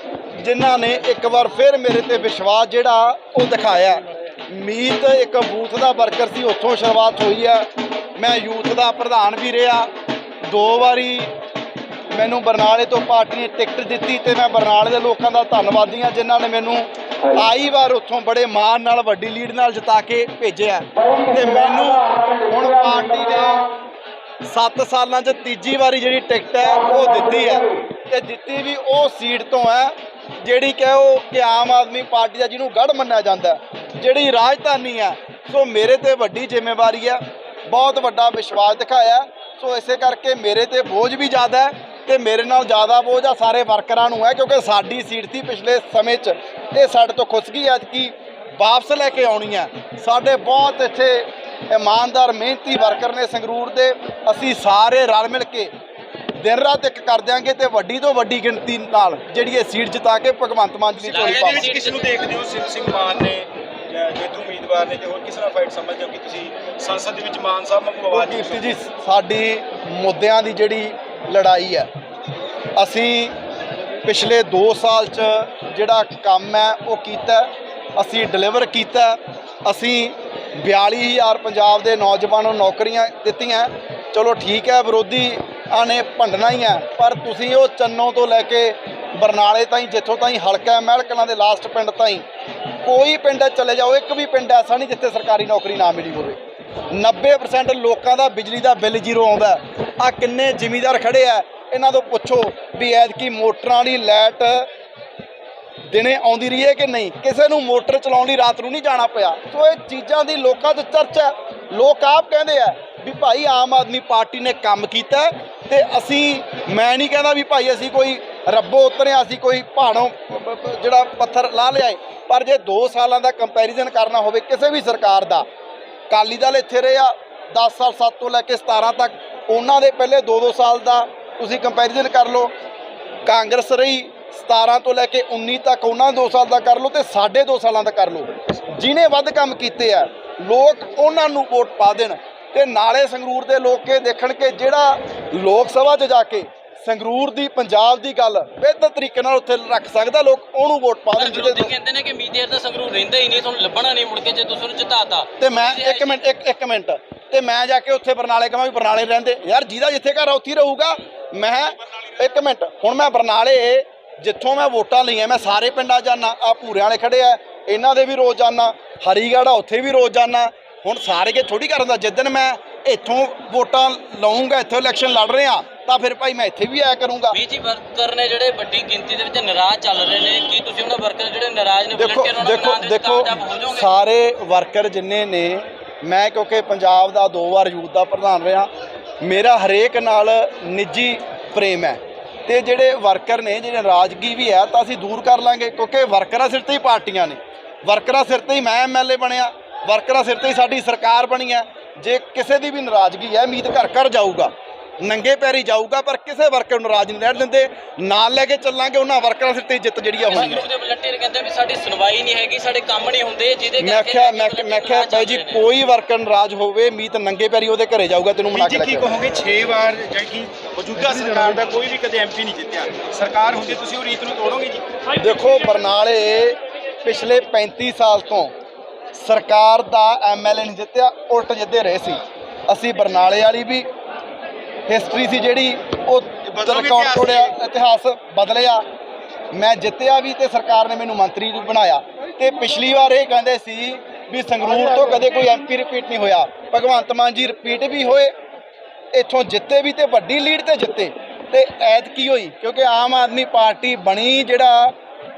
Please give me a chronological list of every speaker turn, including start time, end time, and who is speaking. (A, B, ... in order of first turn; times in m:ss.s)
0:00.4-0:09.9 A
0:10.4-0:11.3 A
0:12.1-0:23.7 A
0:24.4-0:55.7 A
0:56.4-1:01.7 A
1:01.1-1:02.2 B
1:01.2-1:08.8 C
1:08.1-1:11.9 A
1:12.8-1:13.4 A
1:14.0-1:32.2 A
1:32.8-1:36.4 A
1:36.9-1:44.7 A
1:45.9-2:05.4 A
2:06.1-2:12.5 A
2:13.2-2:31.7 A
2:31.2-2:36.2 B
2:35.4-2:57.4 A
2:57.3-3:03.9 B
3:02.0-3:08.7 A
3:09.2-3:30.6 A
3:30.2-3:35.6 B
3:33.8-3:39.1 A
3:38.5-3:44.8 C
3:45.2-3:48.5 A
3:49.1-3:53.8 A
3:54.9-3:58.8 A
3:56.5-3:57.5 C
3:59.5-4:08.3 A
4:09.1-4:14.9 A